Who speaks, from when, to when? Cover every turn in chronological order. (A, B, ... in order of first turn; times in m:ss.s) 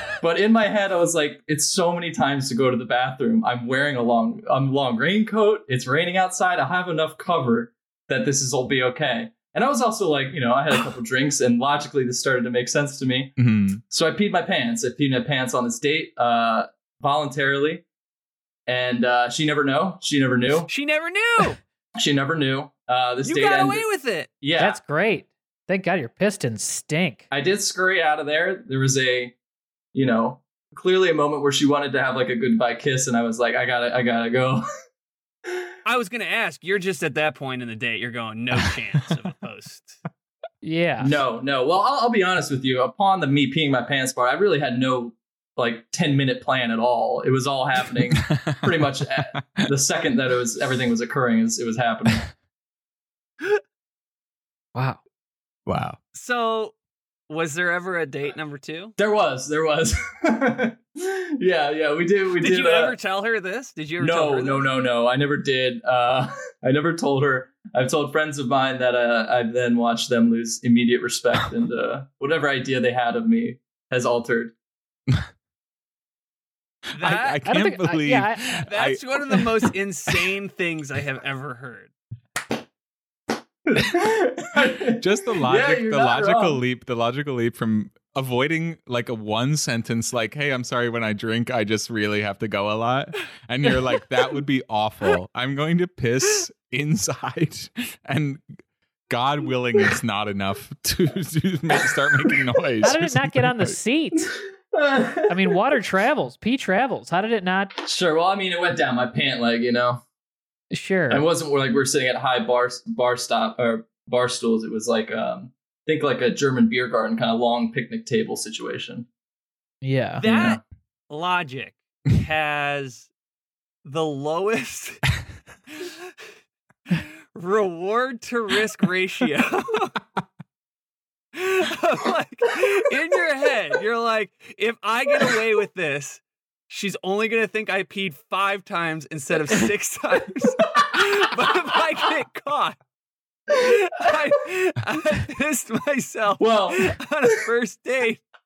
0:00.2-0:13.4 A
0:13.4-0:13.8 B
0:13.9-0:17.8 A
0:18.7-0:20.7 A
0:20.7-0:21.6 C
0:22.0-0:23.8 A
0:23.2-0:24.3 C
0:24.4-0:24.8 A
0:24.6-0:27.3 D
0:27.3-0:29.4 A
0:29.9-0:34.6 A
0:35.8-0:40.0 C
0:40.6-0:41.2 D
0:41.0-0:52.3 A
0:48.3-0:48.9 B
0:54.8-0:55.0 D
0:55.7-0:56.0 B
0:56.1-0:56.7 C
0:57.3-0:59.0 C
0:59.0-1:02.9 A
1:02.4-1:04.7 C
1:04.0-1:14.5 A
1:17.0-1:17.4 C
1:17.0-1:19.7 B
1:17.4-1:18.7 D
1:18.7-1:21.9 C
1:23.7-1:26.6 A
1:24.9-1:38.4 B
1:39.1-1:43.8 B
1:42.8-1:44.3 D
1:44.7-1:45.5 A
1:45.3-1:47.7 D
1:47.8-1:50.0 A
1:50.7-1:51.2 D
1:51.1-1:59.1 A
1:59.8-2:00.6 D
2:00.2-2:03.1 C
2:00.2-2:00.6 A
2:03.8-2:05.1 C
2:05.7-2:06.1 C
2:06.9-2:10.0 C
2:11.3-2:22.8 C
2:23.5-2:28.2 C
2:26.4-2:27.0 A